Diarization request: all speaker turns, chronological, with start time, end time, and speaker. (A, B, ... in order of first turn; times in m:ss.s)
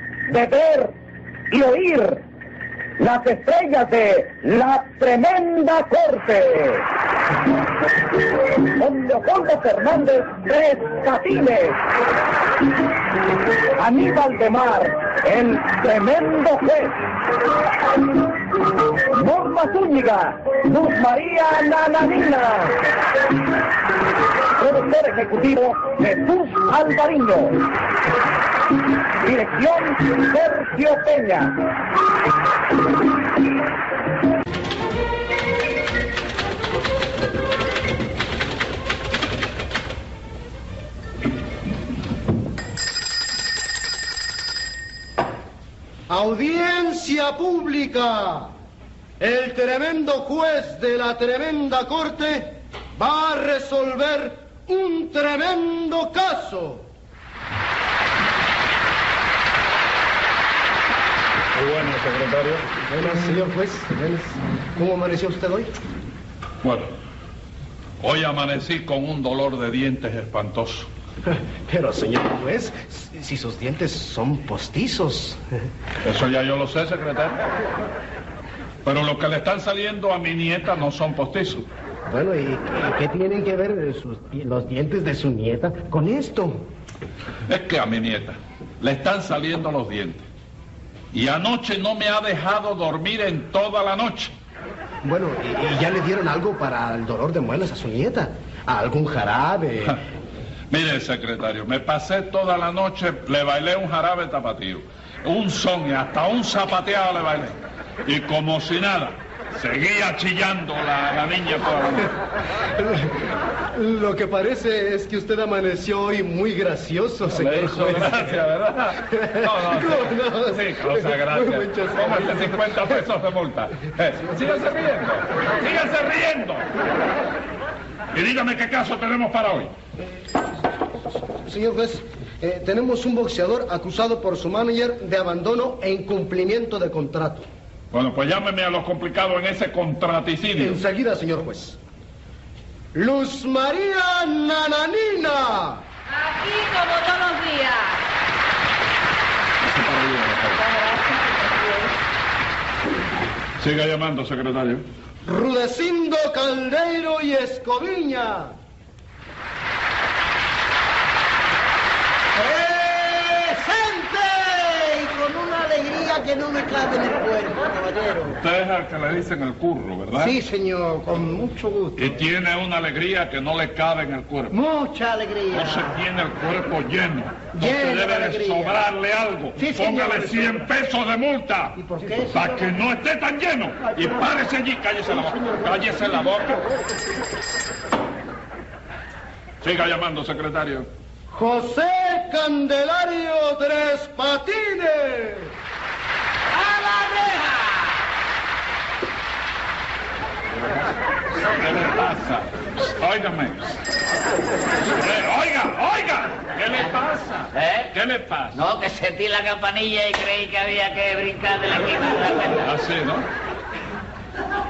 0:00.2-0:00.9 A
0:01.5-0:02.2 A
0:03.0-0:06.9 A
0:08.6-0:11.8 A
0:13.8-0:17.0 A
0:19.1-0:22.9 A
0:24.6-0:27.7 A
0:29.2-0:31.5 A
0:46.1-0:48.5 B
0:49.2-0:56.8 B
1:01.5-1:02.7 C
1:02.8-1:05.7 B
1:06.6-1:06.9 C
1:08.0-1:10.9 C
1:11.2-1:15.4 B
1:16.0-1:17.4 C
1:18.8-1:21.6 C
1:22.1-1:26.6 B
1:27.5-1:30.2 C
1:31.1-1:34.3 C
1:35.0-1:40.0 B
1:40.7-1:52.2 C
1:52.8-1:53.2 B
1:53.7-1:58.3 B
1:57.2-2:06.6 C
1:59.1-2:03.0 B
2:08.1-2:09.7 C
2:11.3-2:17.4 B
2:17.9-2:20.8 C
2:20.6-2:21.8 B
2:22.9-2:25.8 B
2:26.1-2:28.0 D
2:29.6-2:30.6 C
2:30.6-2:31.9 D
2:33.6-2:34.8 C
2:35.2-2:38.5 B
2:42.3-2:48.4 E
2:48.4-2:50.3 C
2:50.1-2:52.1 E
2:52.0-2:54.5 C
2:54.5-2:56.0 E
2:55.5-3:01.8 C
2:57.5-2:58.8 E
2:59.6-3:00.7 E
3:01.8-3:02.6 E
3:02.3-3:06.6 C
3:04.0-3:04.3 E
3:05.1-3:06.9 E
3:09.6-3:10.9 C
3:11.3-3:15.5 B
3:16.6-3:17.7 F
3:21.6-3:23.7 C
3:24.9-3:28.6 C
3:27.5-3:27.9 F
3:28.5-3:32.7 F
3:32.6-3:33.2 C